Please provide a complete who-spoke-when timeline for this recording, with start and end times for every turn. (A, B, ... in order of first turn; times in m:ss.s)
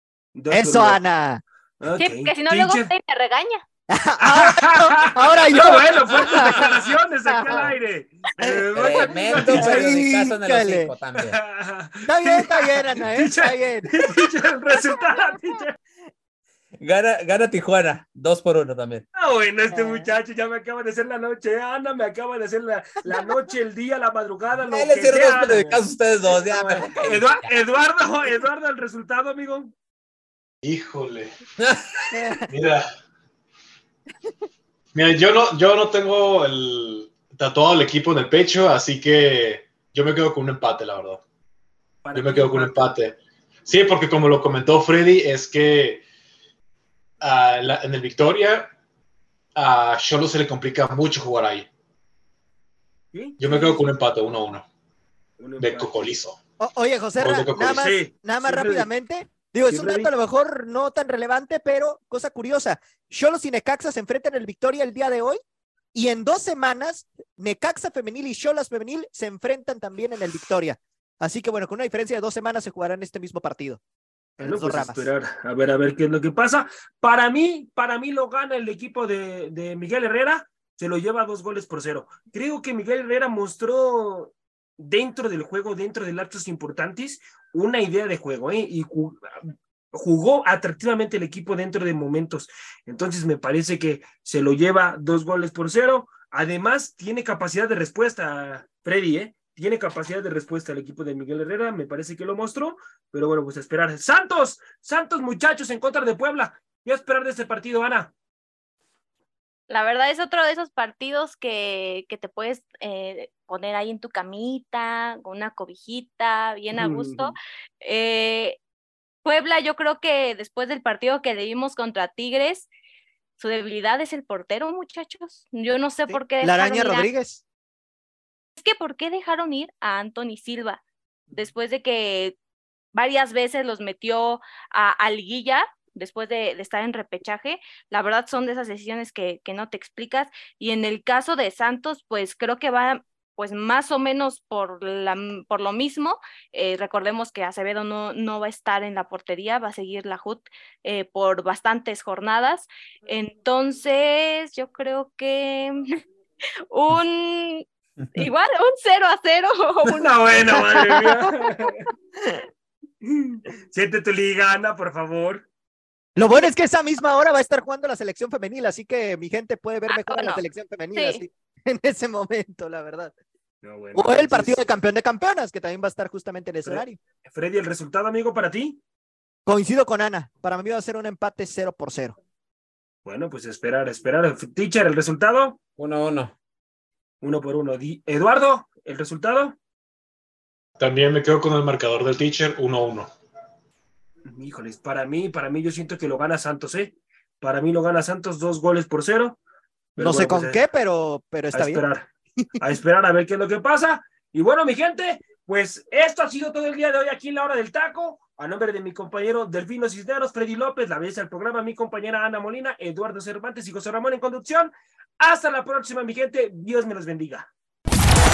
0:00.3-0:01.0 A
0:00.5-0:01.4 B
0:01.8-0:02.9 A
0:02.0-0:03.6 C
0:03.9-0:07.7 B
0:04.2-0:10.0 A
0:08.4-0:08.7 B
0:08.7-0:11.4 D
0:09.3-0:10.9 B
0:11.1-0:15.7 A
0:12.0-0:14.1 B
0:16.8-0:19.0 D
0:19.2-0:29.7 A
0:19.7-0:20.1 B
0:24.7-0:27.5 D
0:30.6-0:31.3 E
0:31.6-0:32.0 D
0:32.1-0:32.5 B
0:32.5-0:32.9 E
0:34.9-0:41.2 E
0:42.0-0:42.9 A
0:42.1-0:46.0 E
0:47.2-0:48.7 E
0:49.5-0:51.7 E
0:53.1-0:53.9 A
0:53.4-0:54.6 E
0:55.4-0:56.1 A
0:55.6-0:56.4 E
0:56.6-1:05.4 B
0:57.2-0:57.9 E
0:57.7-0:58.9 A
0:59.7-1:00.1 A
1:05.9-1:13.8 B
1:14.4-1:15.1 B
1:14.4-1:29.3 A
1:29.9-1:48.1 A
1:49.7-1:58.6 C
1:56.7-1:57.3 A
1:59.2-2:02.7 C
2:03.4-2:07.1 C
2:06.1-2:07.4 B
2:08.6-2:10.8 C
2:11.3-2:12.3 C
2:12.9-2:35.8 C
2:36.7-2:40.1 C
2:39.8-2:41.9 A
2:40.5-2:41.4 B
2:43.0-2:45.4 A
2:46.2-2:53.1 B
2:49.9-2:50.4 C
2:50.9-2:51.2 C
2:53.6-2:54.6 A
2:53.9-2:57.0 B
2:56.6-2:58.8 A
2:59.4-3:02.2 B
3:03.0-3:05.6 A
3:05.8-3:06.3 D
3:07.2-3:09.6 A
3:10.8-3:13.1 E
3:14.2-3:19.4 A
3:20.0-3:20.6 A
3:20.0-3:21.8 B
3:21.5-3:22.1 A
3:22.6-3:37.5 A